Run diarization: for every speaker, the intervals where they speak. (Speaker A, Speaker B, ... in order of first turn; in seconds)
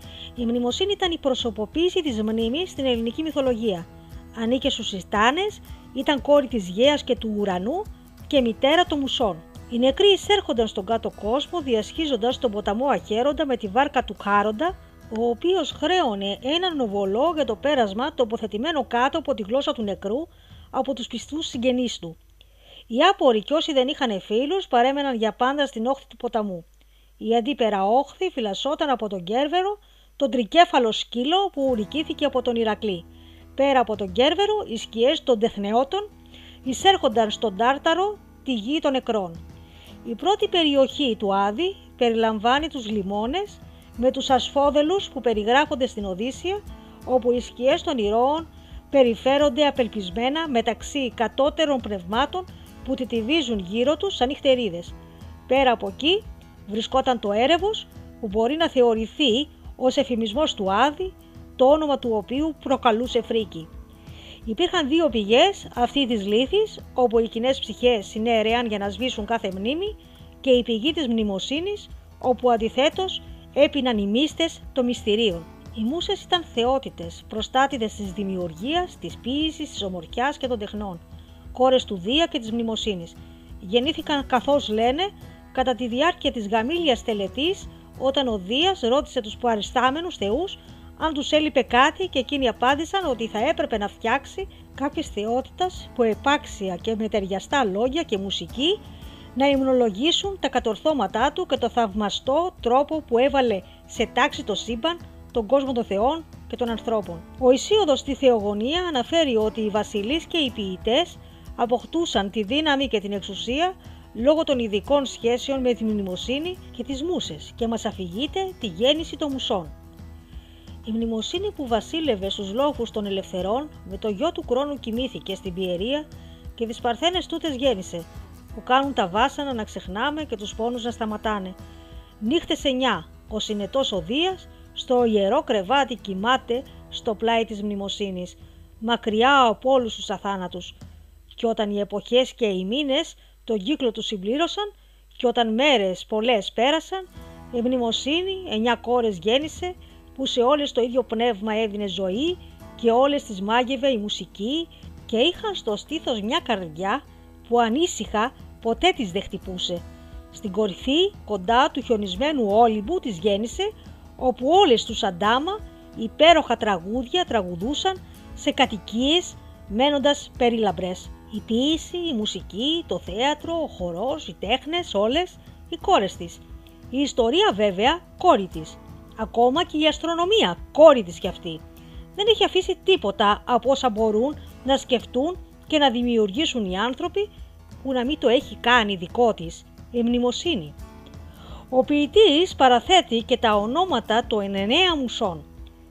Speaker A: 0.4-22.2, 22.9-26.6, 27.2-36.1, 36.6-39.4, 40.0-54.9, 55.5-63.7, 64.5-81.0, 81.5-98.8, 99.3-119.7, 120.8-131.6, 132.2-140.8, 141.3-181.6, 182.2-187.3, 187.8-190.8, 191.7-195.4